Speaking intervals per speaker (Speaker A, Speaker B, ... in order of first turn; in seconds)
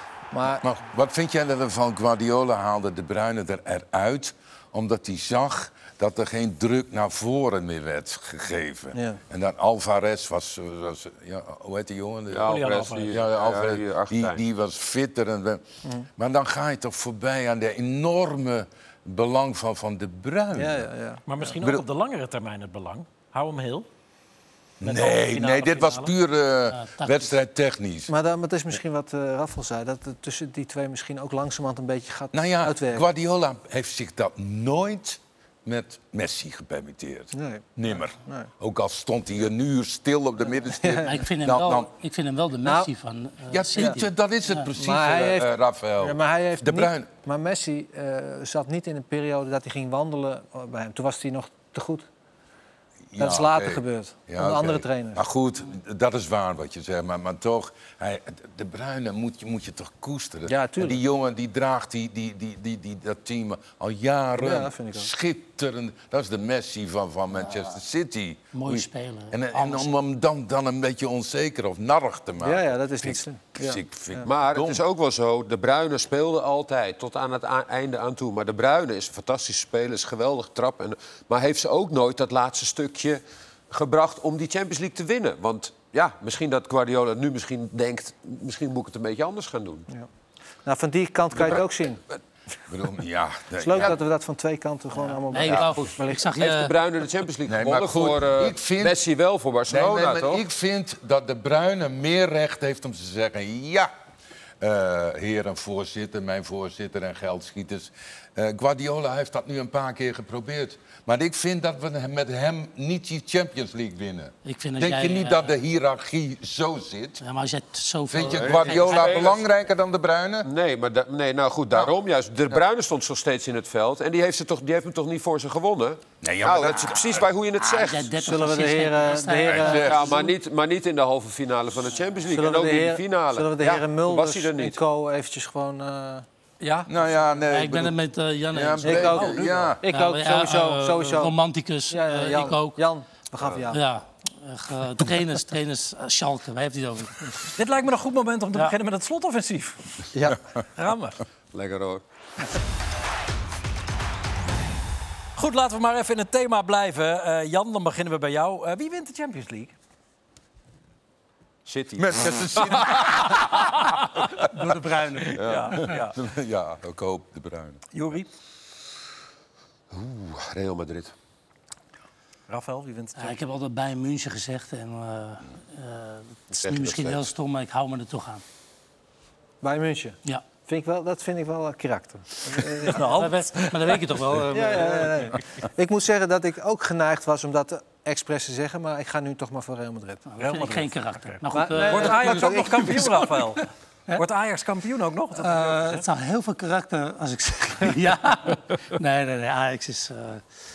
Speaker A: 0.3-0.6, 20.6-21.2, 28.1-33.0, 37.3-37.6, 38.2-38.5, 40.8-41.2, 42.6-42.9, 44.8-52.1, 53.2-55.2, 60.5-61.0, 64.4-65.1, 72.4-74.3, 90.6-92.0, 93.6-96.2, 128.2-130.1, 132.3-136.2, 138.8-141.3, 141.9-143.8, 179.6-183.1, 184.5-190.2, 191.5-193.3
Speaker B: 0.6-15.6, 16.2-20.9, 24.8-28.1, 32.3-41.9, 43.5-47.1, 53.1-74.8, 92.7-94.0, 97.5-99.0, 99.7-103.9, 104.6-117.2, 118.1-120.5, 126.2-127.2, 129.5-130.0, 136.9-137.9, 138.5-139.8, 161.9-163.4, 165.8-167.9
Speaker C: 12.3-14.4, 74.2-89.9, 95.5-100.4, 118.2-119.4, 120.4-128.1, 129.6-134.8, 151.5-152.0, 161.7-162.9, 169.9-171.1, 176.6-177.3
Speaker D: 12.5-13.2, 21.3-23.9, 24.8-26.1, 139.3-139.7, 147.6-150.1, 150.7-151.2, 155.4-159.7, 163.6-164.6, 165.2-166.1, 167.9-168.3, 172.5-173.4, 182.8-184.0, 190.4-196.0
Speaker E: 26.7-27.3, 41.0-44.7, 68.5-69.9, 95.1-96.7, 114.4-115.5, 117.2-119.3, 127.6-130.3, 136.6-136.9, 137.4-142.8, 143.7-147.5, 164.5-165.3, 173.2-178.4, 183.1-185.1, 190.3-193.3, 195.4-200.4